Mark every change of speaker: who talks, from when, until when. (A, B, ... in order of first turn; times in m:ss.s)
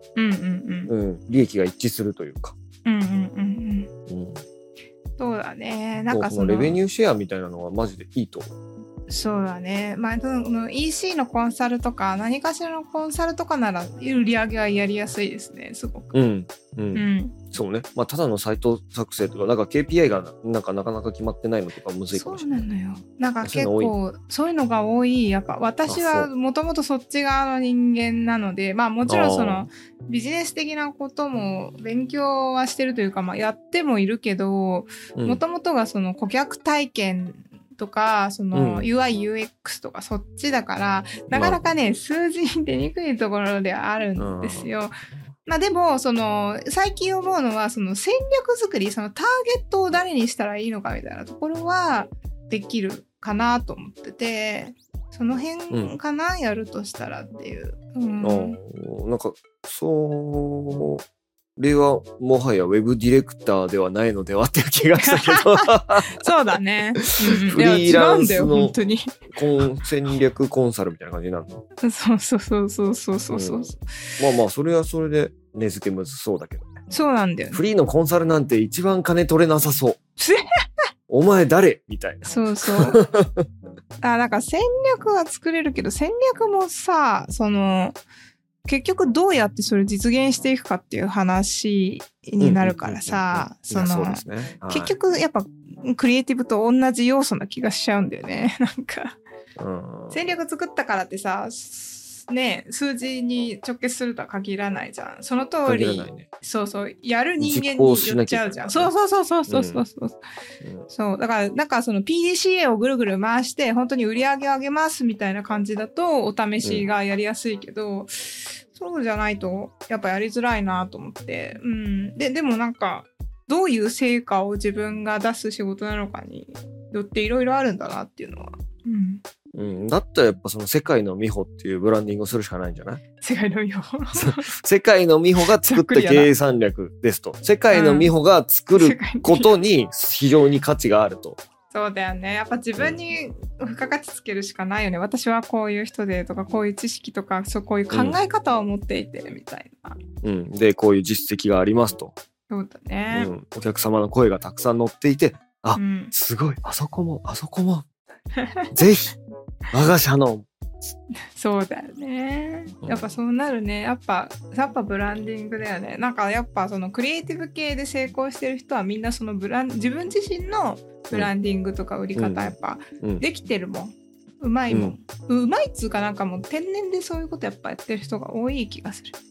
0:00.2-0:00.9 A
0:00.9-0:02.5 B
0:02.8-0:03.9 A
0:04.1-0:04.4 B
0:05.2-0:06.8 A
0:06.1-0:08.5 B
0:09.1-0:16.1 A
0:16.1-0:22.6 B
0:16.9-0:17.4 A
0:22.1-0:44.9 A
0:23.4-0:23.9 B
0:25.9-0:26.3 B
0:29.0-0:29.7 B
0:35.2-0:35.4 B
0:38.5-0:38.9 B
0:41.3-0:41.7 B
0:44.2-0:44.7 B
0:45.4-0:58.6 A
0:58.2-1:01.0 B
1:01.6-1:06.2 B
1:05.0-1:09.4 A
1:07.0-1:08.7 B
1:09.3-1:11.6 B
1:11.8-1:13.9 A
1:13.3-1:16.7 B
1:16.9-1:17.6 A
1:17.5-1:20.0 B
1:21.1-1:23.4 B
1:22.3-1:23.0 A
1:24.0-1:28.0 A
1:28.6-1:39.2 A
1:32.4-1:34.9 B
1:39.6-1:40.3 B
1:40.1-1:50.2 A
1:45.6-1:46.2 B
1:47.4-1:48.9 B
1:49.5-1:49.8 B
1:50.6-1:50.9 B
1:50.9-2:09.2 A
2:09.5-2:13.0 B
2:13.2-2:14.4 A
2:14.2-2:21.4 B
2:15.6-2:16.3 A
2:17.7-2:18.1 A
2:18.7-2:19.5 A
2:21.7-2:30.0 A
2:27.9-2:28.2 B
2:30.2-2:32.1 B
2:32.5-2:33.3 A
2:33.1-2:37.9 B
2:35.7-2:36.1 A
2:38.4-2:38.7 A
2:38.7-2:39.1 B
2:39.7-2:40.5 B
2:41.3-2:59.1 A
2:42.8-2:43.1 B
2:52.1-2:53.2 B
2:54.7-2:55.0 B